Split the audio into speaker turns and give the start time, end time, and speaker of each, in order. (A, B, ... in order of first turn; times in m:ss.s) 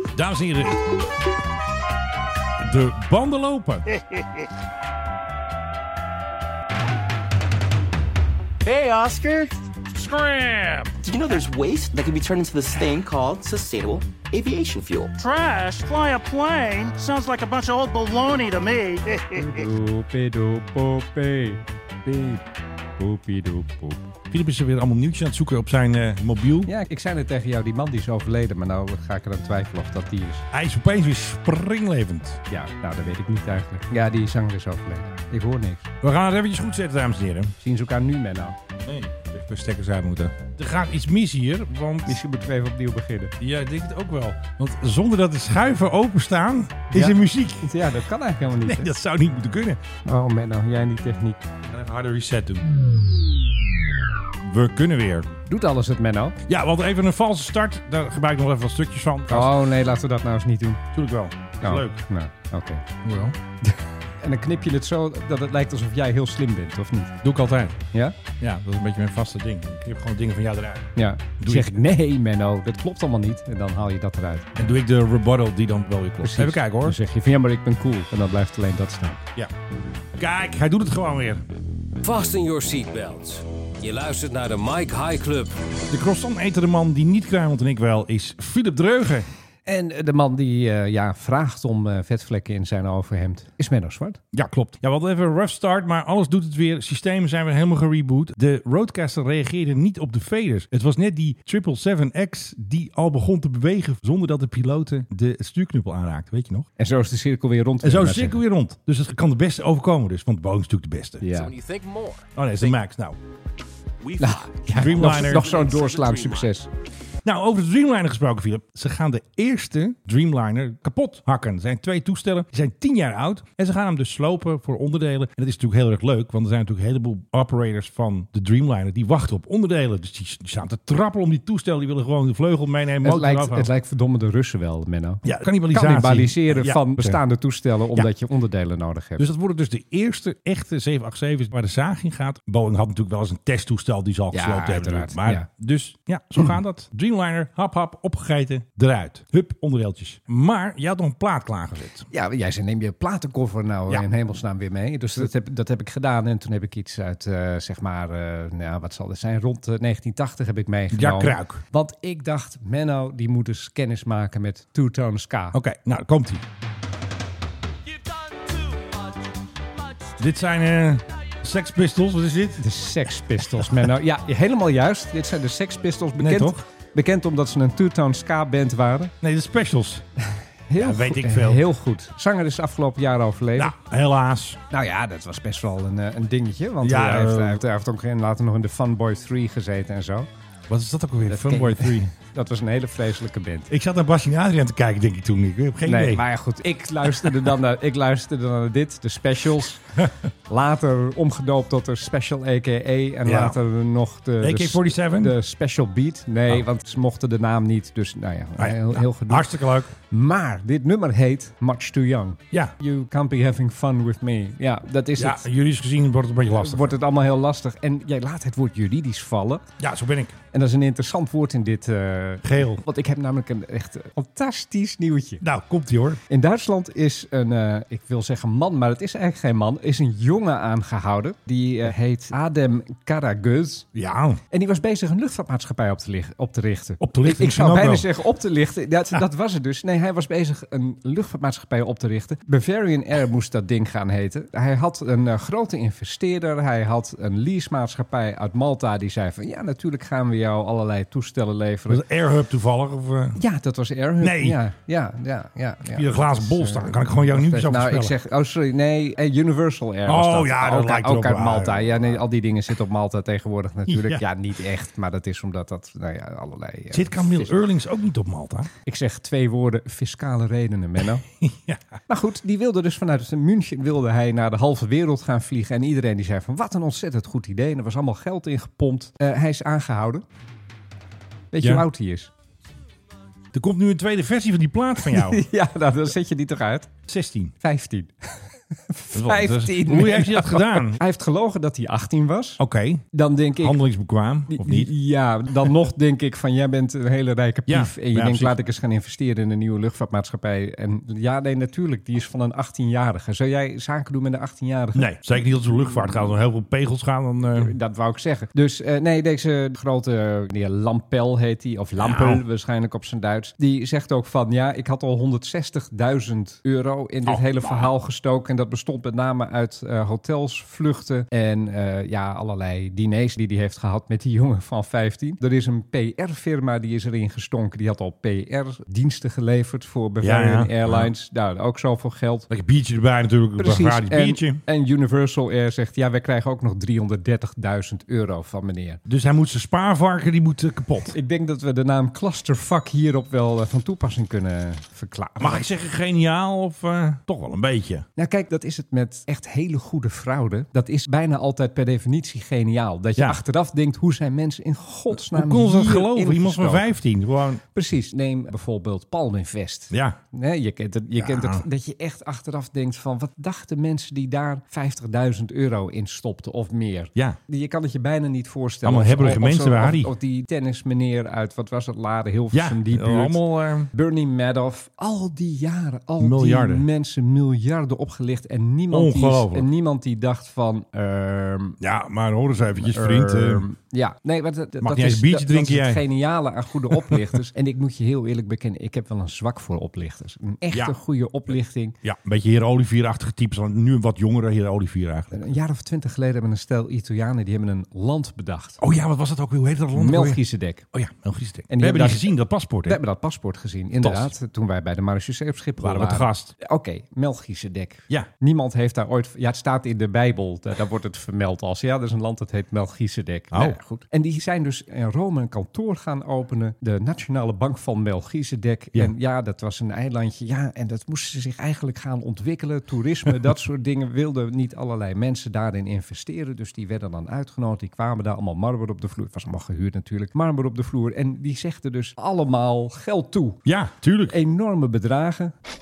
0:00.1-0:01.0 A
0:02.6-0:03.9 A
0:08.7-0:09.5 B
0:10.0-0:10.9 C
0:11.0-0:15.1 B
0:15.2-0:19.6 C
0:19.4-0:22.4 D
0:23.0-0:24.1 D
0:24.3-0:26.7 A
0:26.6-0:30.4 D
0:30.5-0:32.4 A
0:32.5-0:35.9 D
0:36.0-0:37.5 A
0:37.6-0:38.6 D
0:38.8-0:42.2 A
0:42.0-0:43.3 D
0:43.4-0:47.8 A
0:46.9-0:48.9 D
0:48.6-0:49.8 A
0:50.0-0:51.5 D
0:51.6-0:52.7 A
0:54.4-0:55.3 A
0:55.5-0:56.4 D
0:56.4-0:59.5 A
0:59.3-1:00.8 D
1:00.9-1:02.0 A
1:01.6-1:02.8 D
1:03.0-1:03.4 A
1:03.6-1:07.2 D
1:07.2-1:07.8 A
1:08.4-1:11.8 A
1:11.0-1:14.6 D
1:14.6-1:17.0 A
1:16.2-1:19.2 D
1:20.2-1:21.4 A
1:22.0-1:25.7 E
1:25.9-1:29.3 A
1:29.6-1:34.2 D
1:34.3-1:46.7 A
1:46.8-1:48.4 D
1:47.8-1:51.3 A
1:51.2-1:51.5 D
1:51.3-1:52.3 E
1:52.3-1:53.2 A
1:54.0-1:56.5 E
1:54.2-1:56.7 D
1:54.6-1:55.6 A
1:57.2-2:13.7 A
2:13.0-2:19.2 D
2:15.2-2:17.2 A
2:19.2-2:32.1 A
2:24.3-2:25.4 D
2:32.1-2:45.6 D
2:40.9-2:41.6 A
2:45.5-2:46.4 A
2:50.2-2:52.6 A
2:52.6-2:59.1 D
2:53.5-2:53.9 A
2:56.2-2:56.6 A
2:59.2-3:00.0 A
3:00.7-3:03.7 D
3:00.8-3:01.6 A
3:03.6-3:04.6 A
3:04.7-3:10.3 D
3:06.8-3:07.6 A
3:10.7-3:12.1 A
3:11.3-3:13.7 D
3:13.7-3:16.2 A
3:15.8-3:19.8 D
3:20.5-3:29.5 D
3:23.2-3:23.6 A
3:24.4-3:25.4 A
3:28.6-3:29.9 A
3:30.1-3:35.4 D
3:35.2-3:36.9 A
3:36.6-3:39.6 D
3:39.8-3:40.4 A
3:40.5-3:45.4 D
3:42.4-3:42.8 A
3:45.4-3:46.2 A
3:46.3-3:53.9 D
3:53.9-3:54.4 A
3:54.5-4:12.0 D
3:57.0-3:58.1 A
4:11.9-4:13.4 A
4:13.4-4:27.5 D
4:14.2-4:14.6 A
4:15.8-4:18.1 A
4:20.0-4:22.2 A
4:23.9-4:24.2 A
4:26.9-4:28.7 A
4:28.8-4:31.2 D
4:31.1-4:31.8 A
4:32.1-4:40.2 D
4:41.5-4:42.3 D
4:41.6-4:41.8 A
4:43.5-4:45.4 A
4:45.0-4:46.9 D
4:47.1-4:47.5 A
4:47.6-4:52.6 D
4:49.1-4:51.0 A
4:52.6-4:53.0 A
4:53.1-4:53.8 D
4:53.6-4:54.9 A
4:54.5-5:05.1 D
4:57.7-4:58.5 A
5:04.9-5:07.7 A
5:07.5-5:32.5 D
5:12.0-5:12.4 A
5:17.2-5:17.9 A
5:30.2-5:31.1 A
5:32.5-5:34.6 A
5:33.6-5:39.0 D
5:39.0-5:41.2 A
5:41.1-5:45.7 D
5:45.4-5:48.0 A
5:48.2-5:56.9 D
5:55.1-5:57.6 A
5:57.7-6:13.4 D
5:59.9-6:00.2 A
6:01.2-6:01.6 A
6:08.8-6:10.1 A
6:12.5-6:13.9 A
6:13.9-6:21.8 D
6:16.2-6:16.8 A
6:18.9-6:19.7 A
6:21.8-6:23.6 A
6:22.8-6:32.0 D
6:24.8-6:26.0 A
6:26.9-6:27.2 A
6:30.7-6:31.0 A
6:32.0-6:35.4 A
6:35.3-6:38.8 D
6:38.8-6:43.0 A
6:39.9-6:40.8 D
6:41.7-6:42.3 D
6:42.8-7:13.6 D
6:44.0-6:44.3 A
6:45.8-6:46.5 A
6:53.5-6:53.8 A
7:13.6-7:14.4 A
7:14.3-7:15.5 D